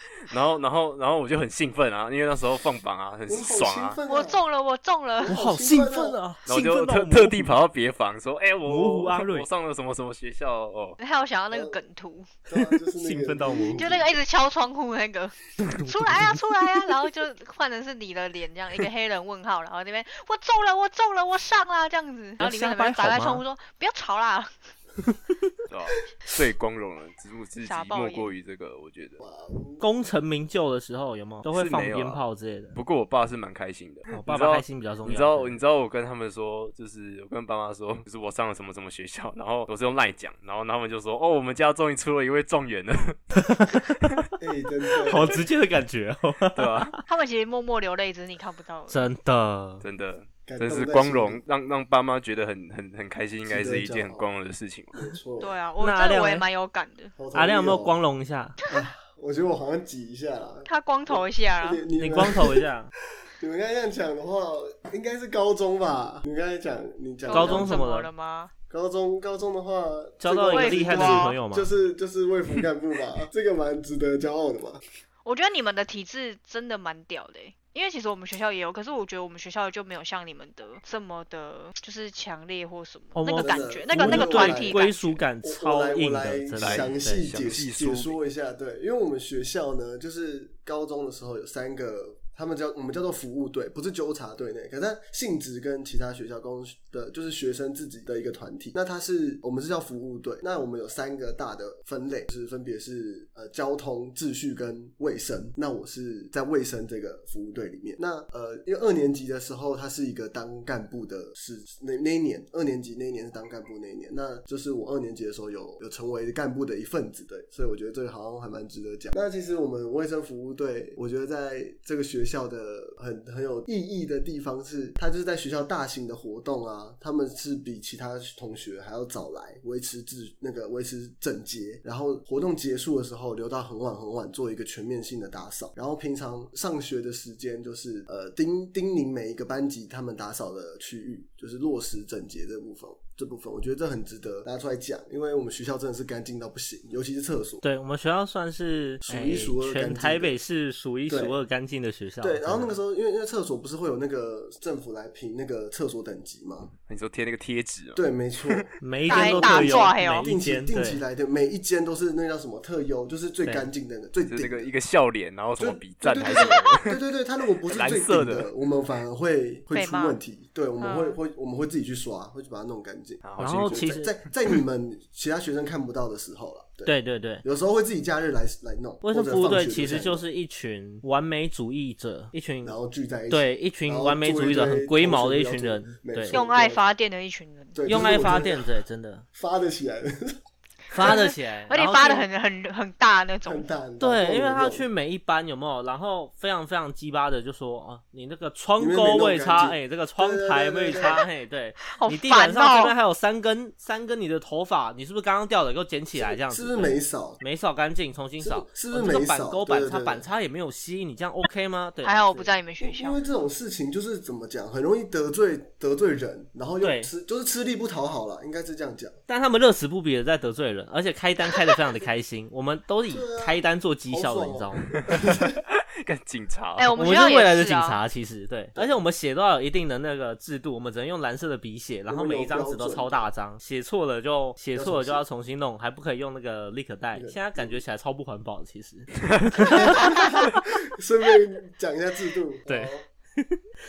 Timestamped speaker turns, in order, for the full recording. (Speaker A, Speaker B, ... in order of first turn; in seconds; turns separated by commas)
Speaker A: 0.3-4.0, Speaker B: 3.3-4.4, Speaker C: 4.1-5.3, Speaker B: 5.2-6.2, Speaker D: 5.2-7.6, Speaker A: 6.5-11.0, Speaker D: 8.7-9.5, Speaker C: 11.0-12.3, Speaker B: 11.5-11.8, Speaker B: 12.5-14.1, Speaker D: 12.9-14.0, Speaker C: 13.7-24.7, Speaker D: 15.6-16.9, Speaker D: 22.4-23.4, Speaker A: 25.7-29.2, Speaker C: 27.6-28.3, Speaker B: 29.2-29.8, Speaker D: 29.8-32.8, Speaker A: 31.5-32.2, Speaker A: 32.7-43.2, Speaker D: 34.1-35.6, Speaker D: 43.4-43.9, Speaker B: 44.4-45.4, Speaker D: 45.0-47.0, Speaker A: 46.5-46.9, Speaker C: 47.0-49.1, Speaker D: 48.9-49.8, Speaker A: 49.8-55.0, Speaker B: 50.5-51.4, Speaker B: 53.5-54.2, Speaker B: 54.9-55.5, Speaker C: 55.4-57.1, Speaker D: 55.8-56.5, Speaker B: 57.2-57.9, Speaker D: 57.3-58.6, Speaker B: 58.7-62.6, Speaker C: 60.6-61.8, Speaker D: 62.0-62.9, Speaker B: 63.4-67.8, Speaker C: 67.2-68.5, Speaker D: 67.3-68.1, Speaker B: 68.7-74.8, Speaker D: 70.2-71.7, Speaker C: 70.5-71.3, Speaker C: 75.2-85.2, Speaker D: 83.1-87.3, Speaker B: 83.4-84.8, Speaker B: 85.4-147.6, Speaker A: 86.6-88.2, Speaker D: 147.6-152.7, Speaker B: 149.0-150.3, Speaker B: 151.1-151.4, Speaker B: 152.2-156.7, Speaker A: 156.9-158.6, Speaker B: 157.9-164.7, Speaker D: 158.8-161.0, Speaker C: 159.1-160.3, Speaker D: 163.4-163.7, Speaker A: 164.2-167.0, Speaker B: 165.6-180.2, Speaker C: 166.2-166.6, Speaker A: 167.7-168.5, Speaker C: 169.7-170.2, Speaker C: 170.8-171.2, Speaker A: 173.2-173.8, Speaker D: 173.4-174.1, Speaker D: 176.8-177.4, Speaker D: 179.0-182.8, Speaker B: 182.6-186.9, Speaker D: 183.3-186.4, Speaker C: 186.3-187.8, Speaker B: 187.7-188.7, Speaker D: 187.8-189.2, Speaker B: 189.3-190.4, Speaker D: 190.9-192.2, Speaker C: 191.0-193.7, Speaker B: 193.4-194.8, Speaker D: 194.0-212.6, Speaker B: 198.8-201.2, Speaker C: 201.8-202.9, Speaker B: 206.2-207.4, Speaker B: 208.4-210.2, Speaker C: 212.0-213.2, Speaker B: 212.8-219.2, Speaker D: 216.8-217.1, Speaker D: 219.3-224.9, Speaker B: 223.1-225.6, Speaker A: 225.8-226.9, Speaker C: 226.8-228.0, Speaker D: 226.9-240.2, Speaker B: 228.7-229.0, Speaker B: 232.1-233.3, Speaker B: 234.7-235.2, Speaker B: 237.1-237.8, Speaker B: 239.6-243.0, Speaker D: 242.7-243.6